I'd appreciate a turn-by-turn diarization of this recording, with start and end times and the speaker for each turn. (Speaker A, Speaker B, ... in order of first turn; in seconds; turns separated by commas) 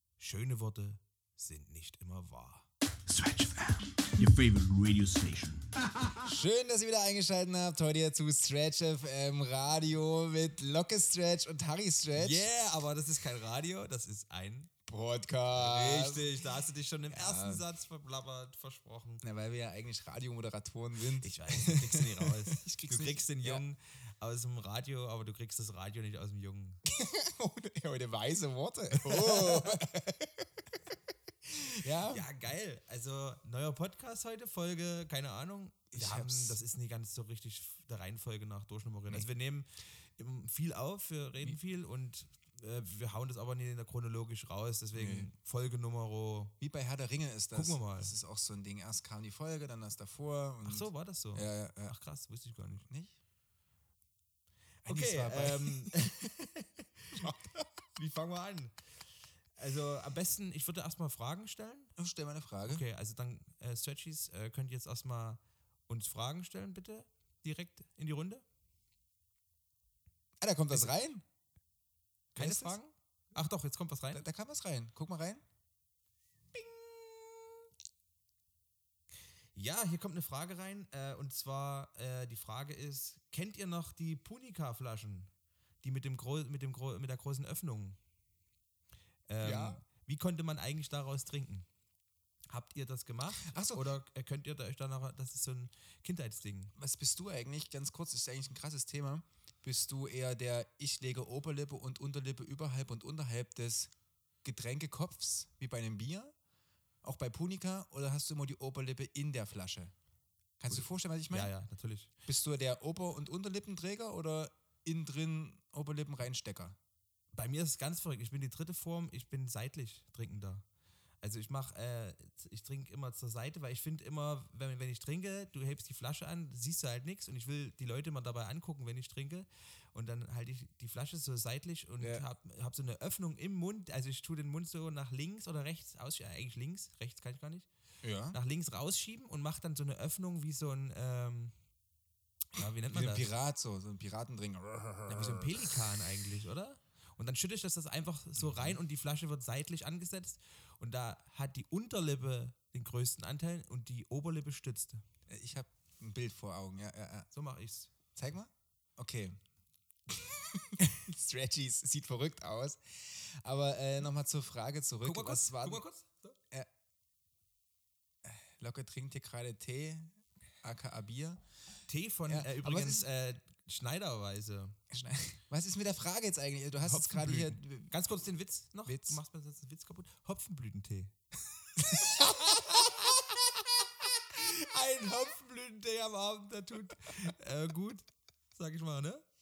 Speaker A: 0.2-2.7, Speaker B: 3.1-6.2, Speaker C: 6.2-12.4, Speaker A: 12.1-14.7, Speaker C: 14.9-16.4, Speaker A: 15.5-19.2, Speaker C: 17.1-17.6, Speaker C: 19.2-23.6, Speaker A: 21.2-26.8, Speaker C: 26.9-30.5, Speaker A: 28.9-29.8, Speaker C: 31.4-32.3, Speaker A: 32.1-46.5, Speaker C: 35.9-36.6, Speaker C: 44.9-45.3, Speaker C: 46.6-52.0, Speaker A: 47.5-48.1, Speaker A: 50.6-52.9, Speaker C: 52.8-53.1, Speaker C: 54.8-56.1, Speaker A: 54.9-57.3, Speaker C: 57.1-57.7, Speaker A: 57.9-58.7, Speaker A: 59.6-61.9, Speaker C: 62.0-62.8, Speaker A: 62.7-68.4, Speaker C: 70.4-71.2, Speaker A: 72.3-74.2, Speaker C: 72.3-72.8, Speaker C: 74.1-75.4, Speaker A: 76.5-77.5, Speaker A: 79.5-85.3, Speaker A: 85.8-88.0, Speaker A: 89.3-91.7, Speaker C: 89.4-89.8, Speaker A: 92.5-96.7, Speaker C: 93.3-93.9, Speaker C: 96.8-103.9, Speaker C: 104.4-106.3, Speaker C: 107.0-109.9, Speaker C: 110.6-111.5, Speaker A: 110.7-112.1, Speaker C: 112.2-116.8, Speaker A: 117.3-120.6, Speaker A: 121.2-137.7, Speaker C: 132.0-132.2, Speaker C: 138.0-138.4, Speaker A: 138.3-141.5, Speaker A: 142.5-143.2, Speaker C: 142.9-145.8, Speaker A: 145.1-155.0, Speaker C: 148.4-148.8, Speaker C: 155.3-157.3, Speaker A: 157.3-157.9, Speaker C: 158.1-159.4, Speaker C: 160.1-165.8, Speaker A: 165.0-166.4, Speaker C: 168.2-171.4, Speaker A: 171.9-174.8, Speaker C: 172.3-173.1, Speaker C: 174.9-177.9, Speaker A: 176.8-181.1, Speaker C: 178.8-179.2, Speaker A: 181.7-183.1, Speaker C: 181.8-183.4, Speaker A: 184.3-189.3